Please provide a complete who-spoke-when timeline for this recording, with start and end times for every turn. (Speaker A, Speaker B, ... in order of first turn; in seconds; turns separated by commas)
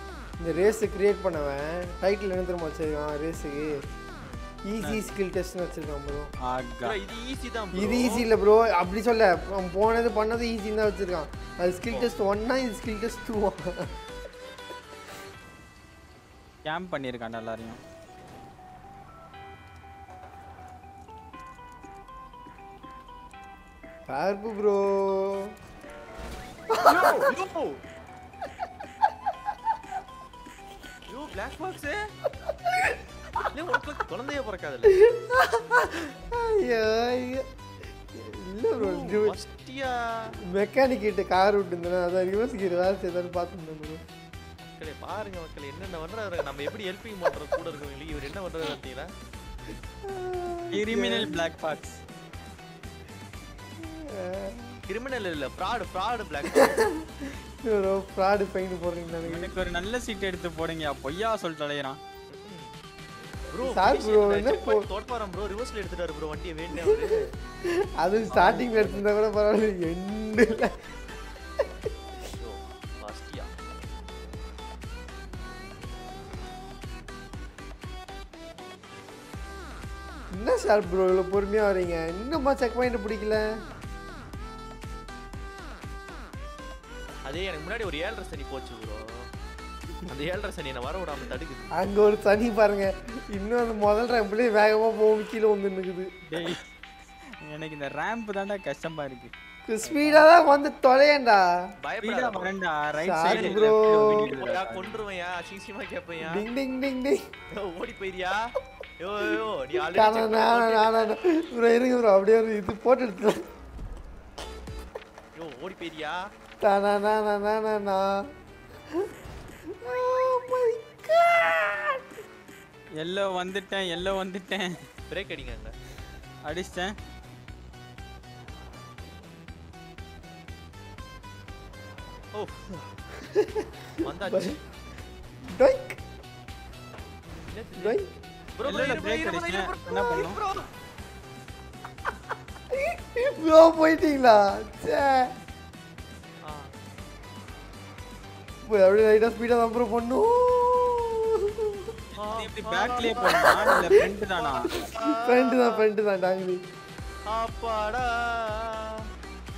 Speaker A: 0.4-3.8, Speaker B: 0.5-0.8, Speaker A: 4.6-6.3, Speaker C: 4.8-5.2, Speaker C: 6.4-7.0, Speaker B: 6.8-8.2, Speaker A: 7.7-13.9, Speaker C: 16.6-17.8, Speaker A: 24.1-25.5, Speaker A: 26.7-27.3, Speaker B: 26.8-27.8, Speaker B: 31.1-32.0, Speaker A: 32.4-33.4, Speaker B: 33.5-34.9, Speaker A: 34.9-37.5, Speaker A: 38.1-39.4, Speaker B: 38.8-40.3, Speaker A: 40.4-44.0, Speaker B: 44.6-49.1, Speaker A: 50.0-51.5, Speaker C: 50.7-52.0, Speaker A: 53.8-54.8, Speaker B: 54.9-56.8, Speaker A: 56.5-59.5, Speaker C: 59.2-62.0, Speaker B: 62.3-62.7, Speaker B: 63.5-67.2, Speaker A: 63.6-64.8, Speaker A: 66.8-67.0, Speaker A: 67.7-70.7, Speaker C: 68.3-69.0, Speaker B: 72.4-73.5, Speaker A: 80.3-83.5, Speaker B: 87.2-89.1, Speaker B: 90.0-91.7, Speaker A: 91.7-96.5, Speaker C: 96.3-96.6, Speaker C: 97.3-100.2, Speaker A: 99.7-101.5, Speaker B: 101.8-102.5, Speaker C: 102.0-105.0, Speaker A: 103.0-104.3, Speaker B: 103.3-106.4, Speaker A: 106.2-107.2, Speaker B: 107.5-111.1, Speaker A: 109.2-113.4, Speaker B: 115.3-116.2, Speaker A: 116.6-118.2, Speaker A: 119.7-122.1, Speaker C: 123.0-124.8, Speaker B: 125.1-125.7, Speaker C: 126.4-127.0, Speaker B: 132.3-132.6, Speaker A: 133.2-134.6, Speaker B: 134.0-134.6, Speaker A: 135.5-136.0, Speaker B: 137.5-138.0, Speaker A: 137.8-138.1, Speaker B: 138.6-140.7, Speaker C: 138.6-140.4, Speaker A: 142.7-145.3, Speaker B: 146.4-146.7, Speaker A: 148.6-151.9, Speaker C: 152.1-154.7, Speaker B: 152.2-155.8, Speaker A: 153.2-154.1, Speaker A: 154.8-156.6, Speaker B: 157.3-159.1